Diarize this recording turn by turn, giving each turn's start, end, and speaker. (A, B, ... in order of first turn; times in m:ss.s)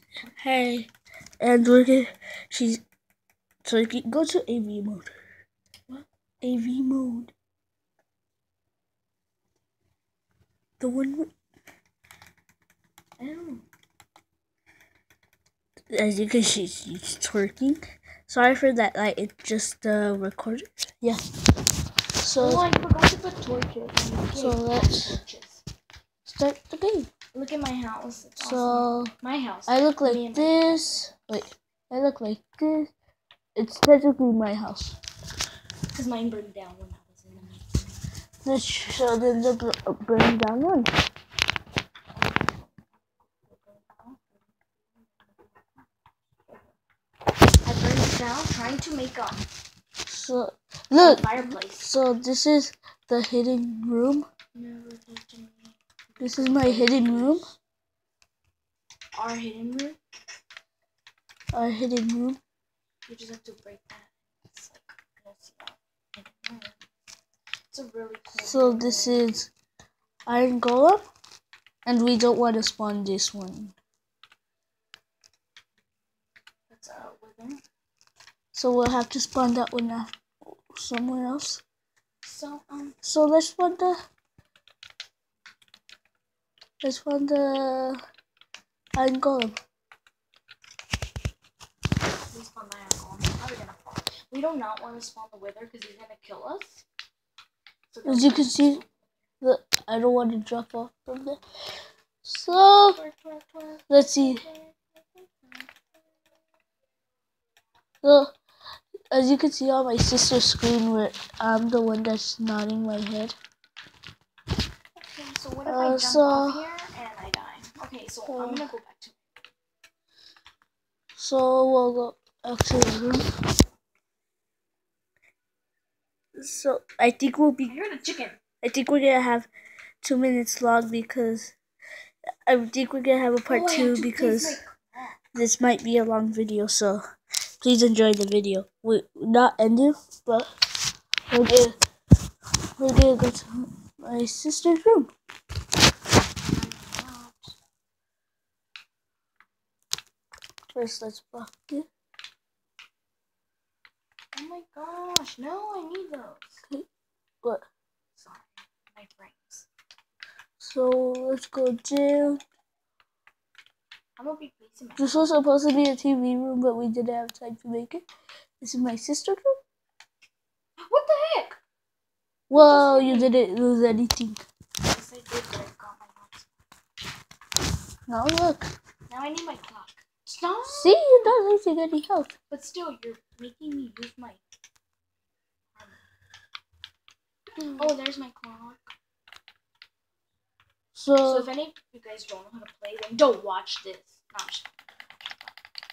0:00.4-0:00.9 A
0:01.4-0:02.8 A
0:03.6-0:05.1 A
0:06.4-0:07.3 A
0:10.8-0:11.3 A
0:13.2-0:13.6 B
0:15.9-0:21.3 A
0:22.2-0:22.6 A
0:22.4-0:25.6 B
0:24.3-0:25.2 A
0:26.2-0:27.1 A
0:27.3-0:31.0 B
0:28.4-0:29.1 A
0:29.7-0:32.9 A
0:33.6-0:35.0 A
0:35.9-0:38.0 B
0:38.4-0:40.9 A
0:43.4-0:45.9 B
0:46.4-0:46.7 B
0:47.6-0:49.5 B
0:50.1-0:54.3 A
0:51.0-0:51.9 B
0:54.5-0:57.6 B
0:56.2-0:57.5 A
0:59.1-1:00.0 B
1:01.5-1:02.4 A
1:03.1-1:06.8 B
1:07.7-1:09.3 B
1:08.4-1:09.5 A
1:10.3-1:11.0 A
1:11.8-1:13.8 A
1:16.7-1:17.6 B
1:18.5-1:20.1 A
1:20.7-1:21.6 A
1:22.2-1:23.0 B
1:23.0-1:24.0 A
1:26.8-1:28.0 A
1:29.0-1:29.6 A
1:32.3-1:36.8 B
1:37.9-1:38.9 B
1:38.0-1:38.8 A
1:39.4-1:41.4 A
1:42.2-1:43.0 A
1:42.5-1:45.7 B
1:43.9-1:44.4 A
1:48.0-1:48.3 A
1:49.1-1:53.4 A
1:55.0-1:59.2 B
1:55.7-1:56.6 A
1:58.3-1:58.7 A
2:01.2-2:03.3 A
2:06.4-2:07.8 A
2:07.7-2:08.4 B
2:08.6-2:09.5 A
2:10.0-2:11.6 A
2:12.5-2:14.6 A
2:13.5-2:15.2 B
2:15.3-2:17.0 A
2:17.6-2:20.5 A
2:21.3-2:21.8 A
2:22.8-2:25.1 A
2:26.4-2:27.6 B
2:30.7-2:31.9 A
2:34.3-2:36.6 B
2:38.2-2:39.7 B
2:40.6-2:42.4 A
2:44.2-2:45.3 B
2:45.0-2:48.1 A
2:48.6-2:49.6 A
2:50.8-2:51.6 B
2:52.5-2:54.4 A
2:52.5-2:53.3 B
2:54.9-2:56.5 B
2:58.1-2:58.6 A
2:59.1-3:01.0 B
3:00.7-3:02.3 A
3:02.5-3:04.4 B
3:05.8-3:06.0 B
3:07.7-3:08.9 B
3:11.0-3:11.5 A
3:11.2-3:15.6 B